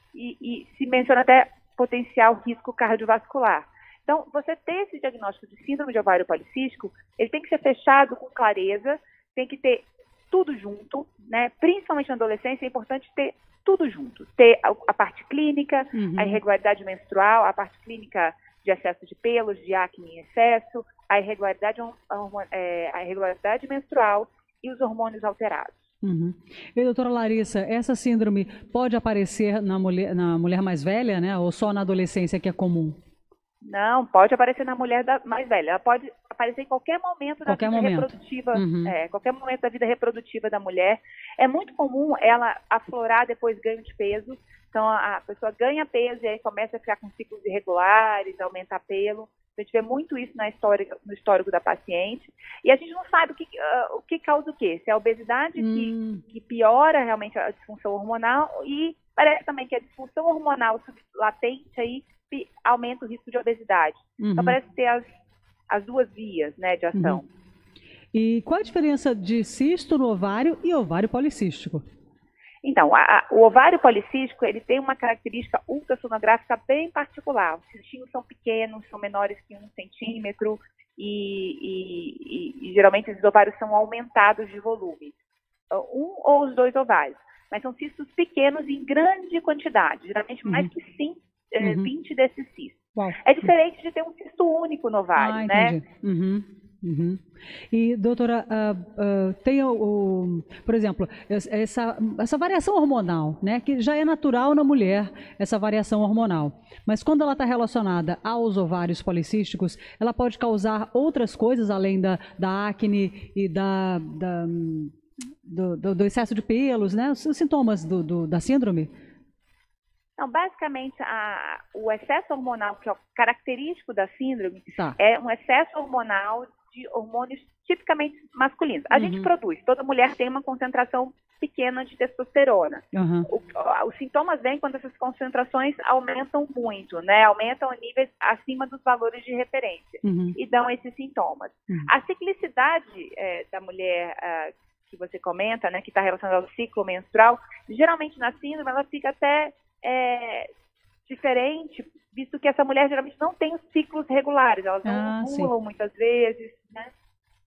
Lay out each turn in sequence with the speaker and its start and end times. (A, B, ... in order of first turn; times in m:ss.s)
0:00.1-0:25.8 A
0:15.9-0:16.4 B
0:26.0-0:33.0 B
0:33.6-1:05.1 A
0:37.4-0:38.9 B
0:55.6-0:56.2 B
1:04.2-1:04.6 B
1:05.7-1:07.2 A
1:06.9-1:07.2 B
1:08.1-1:11.8 B
1:12.6-1:25.1 A
1:25.7-1:35.8 A
1:30.4-1:30.7 B
1:31.6-1:31.9 B
1:35.2-1:54.9 B
1:55.4-1:58.9 B
2:00.2-2:30.5 A
2:08.9-2:09.3 B
2:12.9-2:13.3 B
2:20.0-2:20.4 B
2:31.0-2:36.9 A
2:34.8-2:35.5 B